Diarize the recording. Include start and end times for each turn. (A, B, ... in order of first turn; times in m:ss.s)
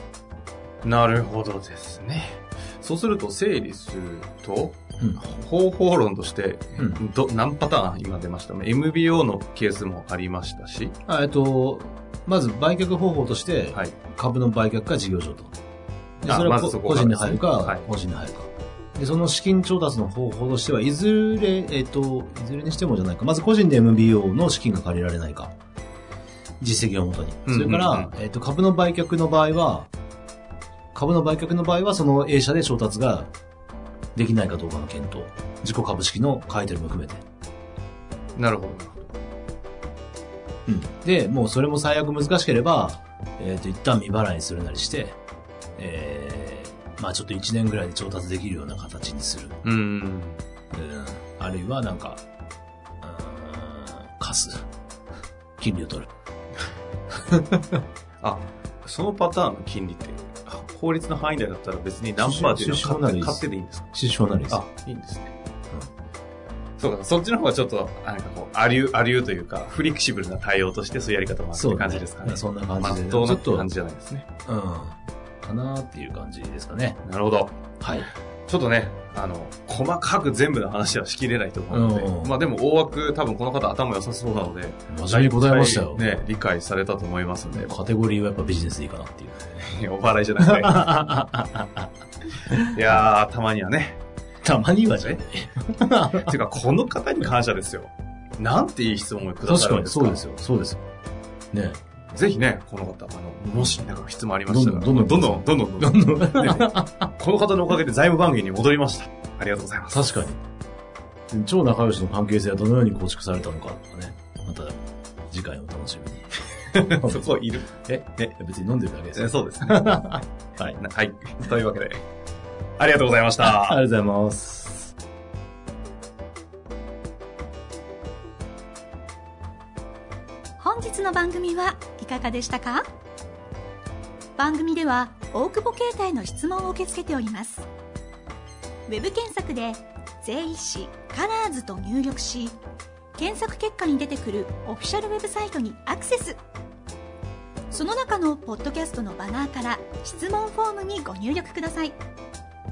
0:00.8-0:10.9 A
0:11.1-0:15.5 B
0:16.2-0:25.5 B
0:16.2-0:17.8 A
0:26.6-0:29.9 B
0:27.4-0:28.1 A
0:30.9-0:33.3 B
0:34.1-0:37.2 B
0:38.4-0:39.0 A
0:40.7-0:45.2 B
0:45.8-0:49.6 B
0:49.6-0:50.4 A
0:50.7-0:52.2 B
0:53.0-0:54.6 B
0:55.6-0:56.1 B
0:57.3-0:57.8 B
0:58.2-1:03.9 A
1:02.2-1:04.6 B
1:04.5-1:05.3 A
1:06.8-1:14.2 A
1:11.5-1:13.7 B
1:14.4-1:17.0 B
1:17.0-1:17.6 A
1:17.8-1:18.1 B
1:18.5-1:27.7 A
1:21.7-1:22.4 B
1:24.9-1:26.1 B
1:27.5-1:29.7 B
1:29.6-1:30.9 A
1:30.4-1:31.9 B
1:32.5-1:32.8 B
1:32.7-1:34.0 A
1:34.4-1:36.3 B
1:36.1-1:40.2 A
1:39.4-1:40.8 B
1:41.5-1:41.8 B
1:42.1-1:50.1 A
1:43.5-1:43.8 B
1:44.5-1:47.1 B
1:49.9-1:50.4 B
1:51.3-1:54.8 B
1:55.3-2:00.8 B
1:56.7-1:58.3 A
1:59.1-2:00.2 A
2:00.8-2:02.0 A
2:02.8-2:03.8 A
2:03.4-2:04.9 B
2:10.6-2:12.8 C
2:14.4-2:17.7 C
2:18.9-2:22.6 C
2:23.2-2:26.4 C
2:27.7-2:32.0 C